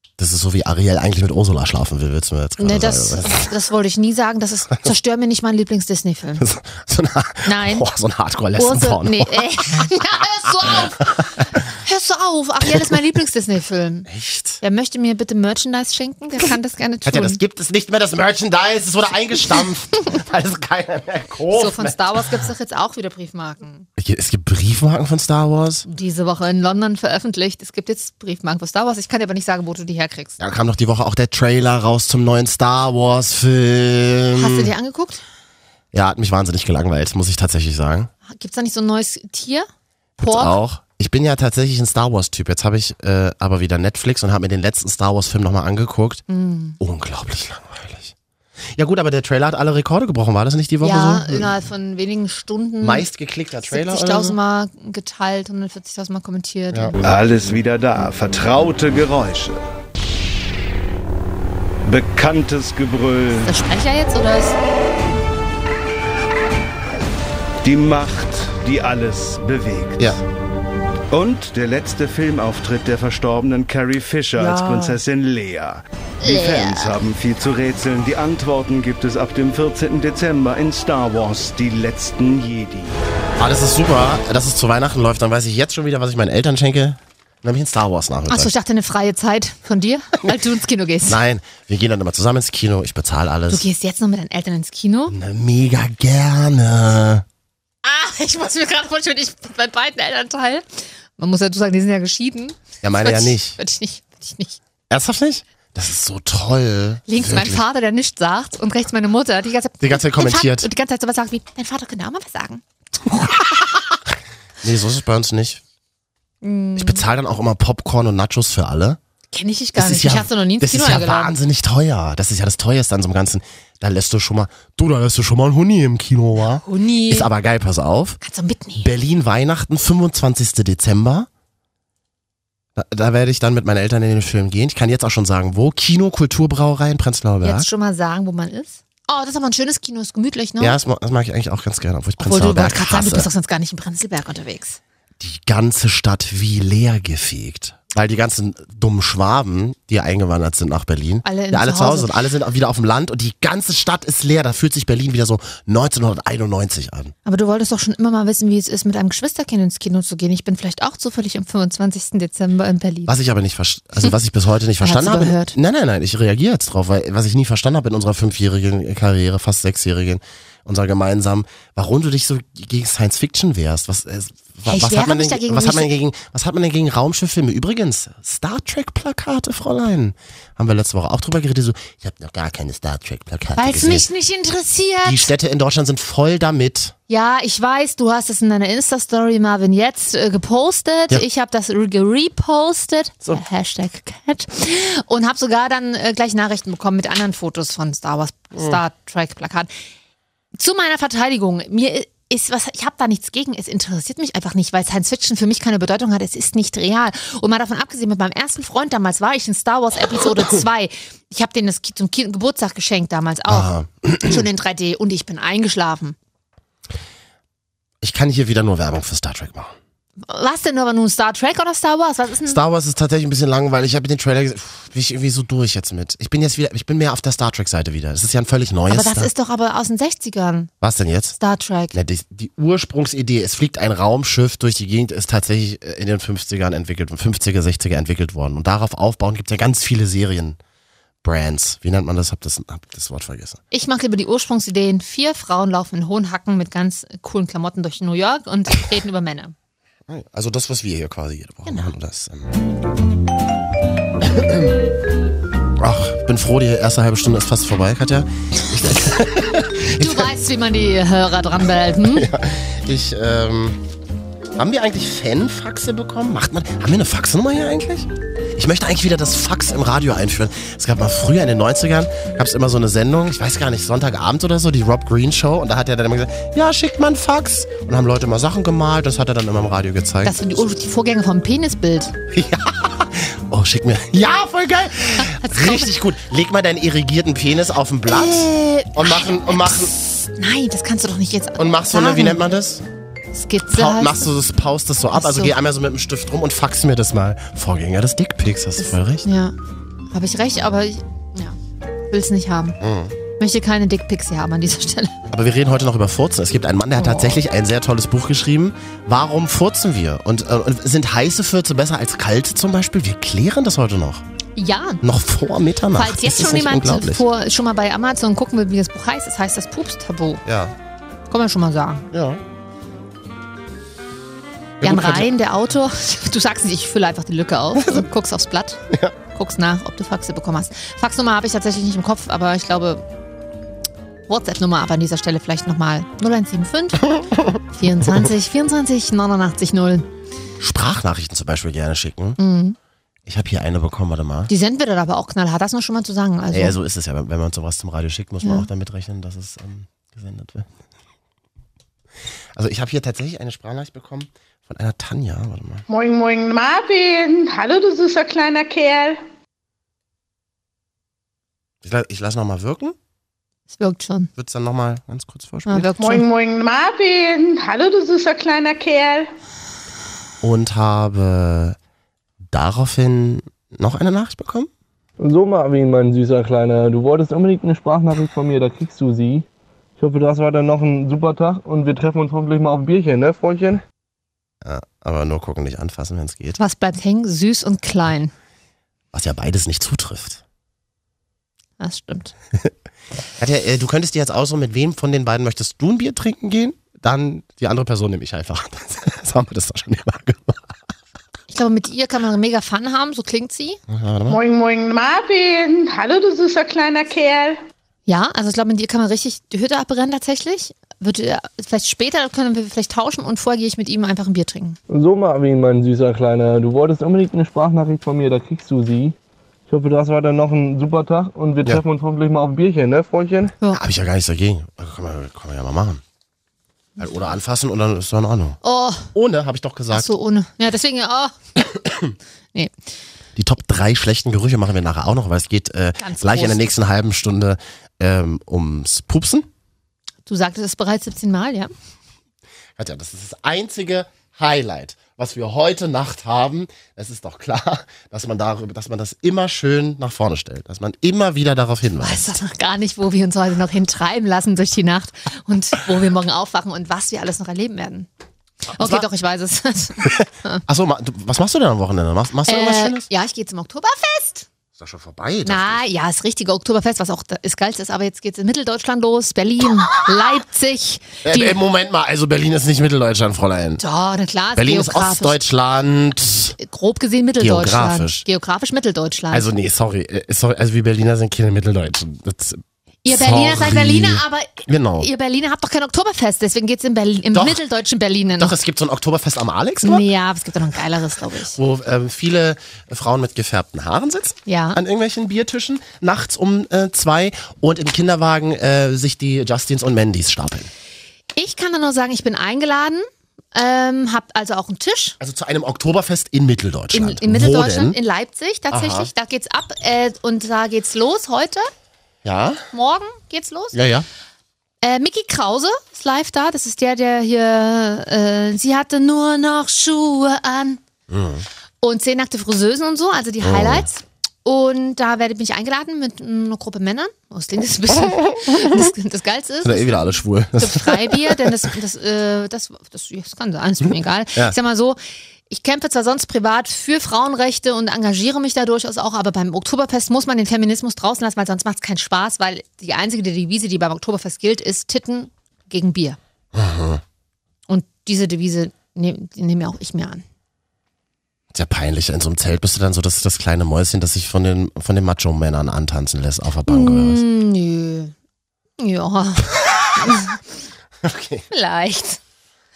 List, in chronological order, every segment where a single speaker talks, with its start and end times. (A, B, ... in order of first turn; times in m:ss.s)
0:00.2-0:03.5 A
0:02.6-0:06.4 B
0:06.4-0:10.9 A
0:07.4-0:07.9 B
0:08.6-0:14.1 B
0:14.1-0:14.6 A
0:14.6-0:17.4 B
0:17.0-0:22.4 A
0:21.5-0:23.9 B
0:24.0-0:25.8 A
0:25.8-0:30.4 B
0:30.4-0:34.7 A
0:34.3-0:35.2 B
0:35.9-0:38.1 A
0:38.3-0:39.7 B
0:40.2-0:40.6 B
0:40.2-0:46.2 A
0:46.3-0:46.8 B
0:46.8-0:48.1 A
0:48.7-0:51.5 A
0:50.8-0:53.1 B
0:52.8-0:54.4 A
0:53.7-0:56.9 B
0:57.0-0:59.6 C
1:01.8-1:03.5 C
1:03.4-1:04.6 B
1:07.6-1:10.2 C
1:11.1-1:23.0 C
1:14.4-1:14.9 B
1:16.2-1:16.9 B
1:23.4-1:28.5 A
1:28.3-1:31.2 B
1:31.1-1:33.6 A
1:33.5-1:35.1 B
1:35.1-1:37.2 A
1:37.8-1:44.6 B
1:42.8-1:43.6 A
1:44.9-1:47.6 A
1:47.1-1:53.7 B
1:49.8-1:50.7 A
1:54.6-1:55.6 A
1:56.4-1:57.0 B
1:56.8-1:59.0 A
1:59.3-2:01.3 B
1:59.8-2:08.2 A
2:06.6-2:07.3 B
2:08.2-2:08.9 B
2:08.8-2:11.3 A
2:12.8-2:17.7 A
2:17.4-2:20.8 B
2:20.6-2:23.3 A
2:22.2-2:24.8 B
2:25.2-2:37.1 A
2:31.2-2:32.1 B
2:37.2-2:43.1 B
2:43.1-3:04.1 A
2:44.8-2:45.5 B
2:54.6-2:55.9 B
3:03.6-3:05.3 B
3:05.0-3:06.9 A
3:07.1-3:19.7 B
3:18.5-3:18.8 A
3:20.6-3:36.2 B
3:33.5-3:34.4 A
3:38.0-3:39.7 A
3:40.2-3:42.6 B
3:42.4-3:49.3 A
3:48.9-3:50.7 B
3:50.8-3:51.4 A
3:51.4-3:52.0 B
3:51.9-4:00.6 A
4:01.2-4:03.6 A
4:03.7-4:09.5 B
4:10.1-4:12.6 A
4:11.6-4:11.9 B
4:14.2-4:14.7 A
4:15.8-4:20.3 A
4:20.0-4:22.3 B
4:22.0-4:23.8 A
4:24.6-4:40.4 A
4:40.2-4:42.2 B
4:42.3-4:49.9 A
4:45.2-4:45.9 B
4:48.1-4:52.4 B
4:51.6-4:52.8 A
4:53.3-4:54.3 B
4:53.7-4:59.2 A
4:55.1-4:55.5 B
4:58.8-4:59.5 B
5:00.1-5:01.6 B
5:02.1-5:02.8 B
5:02.8-5:03.2 A
5:03.4-5:05.2 B
5:05.3-5:14.2 A
5:07.0-5:07.4 B
5:14.6-5:15.0 B
5:15.0-5:17.2 A
5:15.9-5:20.4 B
5:20.4-5:20.7 A
5:21.3-5:22.1 B
5:22.1-5:22.4 A
5:24.8-5:25.3 A
5:24.8-5:28.8 B
5:27.7-5:28.1 A
5:29.3-5:33.0 B
5:34.3-5:37.1 B
5:37.7-5:40.1 B
5:40.6-5:42.4 A
5:42.4-5:42.8 B
5:43.2-5:44.5 A
5:44.5-5:46.8 B
5:46.5-5:50.7 A
5:52.5-5:55.8 A
5:55.9-5:59.2 D
6:01.8-6:03.0 A
6:03.7-6:04.3 B
6:04.4-6:05.9 A
6:05.6-6:06.2 B
6:06.0-6:09.3 D
6:10.4-6:11.8 A
6:12.5-6:14.7 A
6:15.2-6:19.4 E
6:20.0-6:23.8 E
6:24.6-6:26.6 A
6:26.6-6:28.3 B
6:29.1-6:30.4 A
6:31.8-6:32.3 B
6:33.4-6:40.7 A
6:41.5-6:43.8 B
6:43.9-6:44.4 A
6:44.3-6:47.6 D
6:48.1-6:54.8 B
6:54.9-6:59.1 E
6:59.7-7:03.5 E
7:03.7-7:06.0 A
7:07.0-7:08.6 A
7:08.6-7:09.1 B
7:09.1-7:10.1 A
7:09.9-7:11.3 B
7:11.6-7:12.1 A
7:13.4-7:19.5 A
7:16.0-7:16.7 B
7:20.2-7:21.7 B
7:22.8-7:32.4 A
7:32.0-7:38.1 B
7:38.7-7:39.0 A
7:38.7-7:40.6 B
7:40.0-7:43.1 A
7:42.5-7:44.5 B
7:44.8-7:45.8 A
7:45.4-7:51.6 B
7:51.2-7:53.8 A
7:53.8-7:55.4 B
7:54.5-7:56.6 A
7:56.6-7:59.5 B
7:57.4-7:58.2 A
7:59.3-8:05.1 A
8:03.0-8:08.5 B
8:07.3-8:07.6 A
8:08.4-8:10.1 A
8:09.8-8:11.6 B
8:11.5-8:20.7 A
8:14.5-8:14.8 B
8:21.4-8:25.2 B
8:25.2-8:28.0 A
8:26.9-8:31.7 B
8:28.7-8:29.1 A
8:32.2-8:32.6 A
8:32.7-8:33.8 B
8:33.7-8:34.1 A
8:34.8-8:40.8 B
8:41.1-8:41.5 A
8:41.8-8:50.0 B
8:43.4-8:43.9 A
8:48.5-8:48.7 A
8:49.6-8:51.5 A
8:50.6-9:06.2 B
9:06.5-9:07.0 A
9:07.7-9:10.2 B
9:11.5-9:17.2 A
9:16.7-9:18.1 B
9:18.8-9:20.4 B
9:21.0-9:21.4 A
9:21.5-9:22.2 B